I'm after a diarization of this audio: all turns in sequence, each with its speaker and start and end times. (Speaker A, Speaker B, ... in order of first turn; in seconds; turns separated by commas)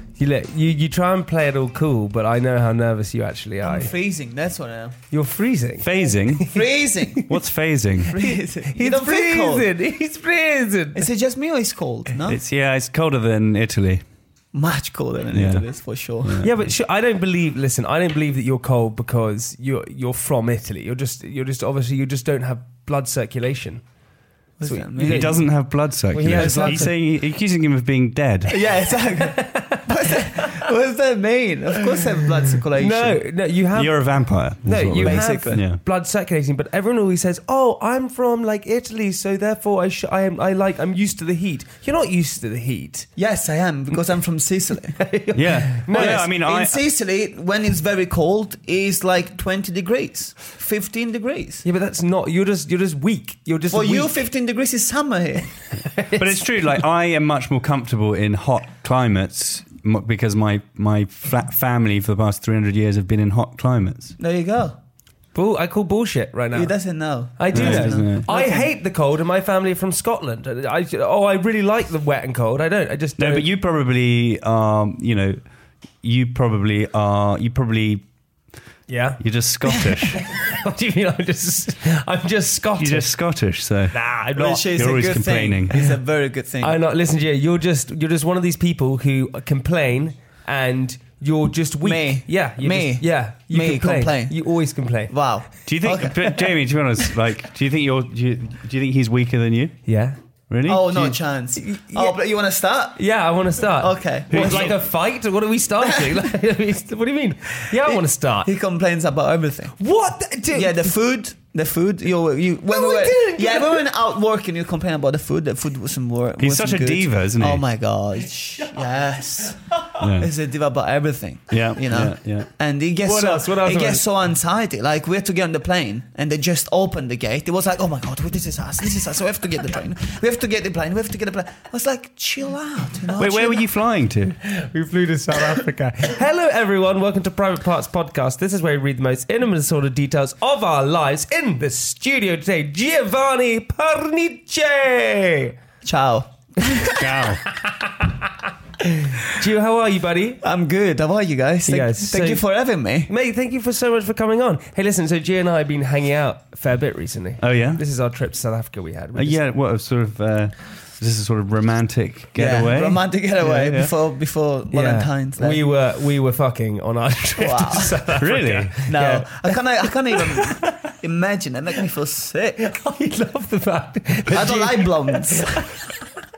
Speaker A: 0.2-3.9, Speaker B: 3.6-5.0, Speaker A: 5.1-5.9, Speaker C: 5.8-6.6, Speaker B: 6.4-7.3, Speaker C: 7.2-8.2, Speaker B: 8.0-9.7, Speaker A: 8.6-11.1, Speaker B: 10.9-12.4, Speaker C: 12.3-14.0, Speaker B: 14.5-16.4, Speaker C: 15.3-15.6, Speaker C: 16.2-16.5, Speaker A: 16.4-23.8, Speaker B: 24.6-25.4, Speaker A: 24.6-25.5, Speaker C: 25.0-28.6, Speaker A: 26.1-26.9, Speaker B: 26.4-26.9, Speaker B: 28.5-33.2, Speaker A: 29.2-30.4, Speaker A: 32.7-43.1, Speaker C: 33.7-35.8, Speaker B: 35.0-35.6, Speaker B: 43.1-45.0, Speaker A: 45.0-46.2, Speaker C: 45.3-46.8, Speaker B: 45.9-51.6, Speaker A: 51.6-54.2, Speaker B: 53.7-55.5, Speaker C: 56.1-64.1, Speaker B: 64.2-64.8, Speaker A: 65.3-66.7, Speaker B: 66.5-68.6, Speaker A: 67.3-73.5, Speaker C: 67.5-68.3, Speaker C: 73.2-75.4, Speaker C: 76.0-78.0, Speaker A: 78.9-79.2, Speaker C: 79.2-80.2, Speaker A: 80.2-83.1, Speaker C: 82.8-84.0, Speaker A: 83.9-84.7, Speaker B: 84.3-86.8, Speaker C: 84.7-85.8, Speaker A: 86.6-95.1, Speaker B: 91.8-94.3, Speaker B: 95.1-96.2, Speaker C: 95.7-99.8, Speaker A: 99.9-100.2, Speaker C: 100.5-101.2, Speaker B: 100.7-103.0, Speaker A: 101.6-102.2, Speaker A: 102.9-108.5, Speaker B: 103.8-104.8, Speaker C: 104.3-104.8, Speaker B: 105.8-106.2, Speaker B: 107.7-109.8, Speaker A: 109.8-111.0, Speaker B: 110.5-133.7, Speaker A: 112.7-113.8, Speaker C: 116.4-117.6, Speaker C: 120.0-120.3, Speaker C: 121.5-122.5, Speaker A: 123.0-124.0, Speaker C: 133.2-134.4, Speaker A: 134.4-145.5, Speaker B: 145.8-147.1, Speaker C: 146.9-147.4, Speaker A: 148.8-150.4, Speaker B: 150.4-153.1, Speaker A: 151.7-152.4, Speaker A: 153.1-159.4, Speaker C: 157.4-157.8, Speaker C: 159.1-163.9, Speaker B: 162.3-165.6, Speaker A: 164.7-170.9, Speaker B: 167.4-168.0, Speaker C: 168.2-168.8, Speaker B: 168.8-172.7, Speaker A: 172.6-175.7, Speaker B: 174.3-175.7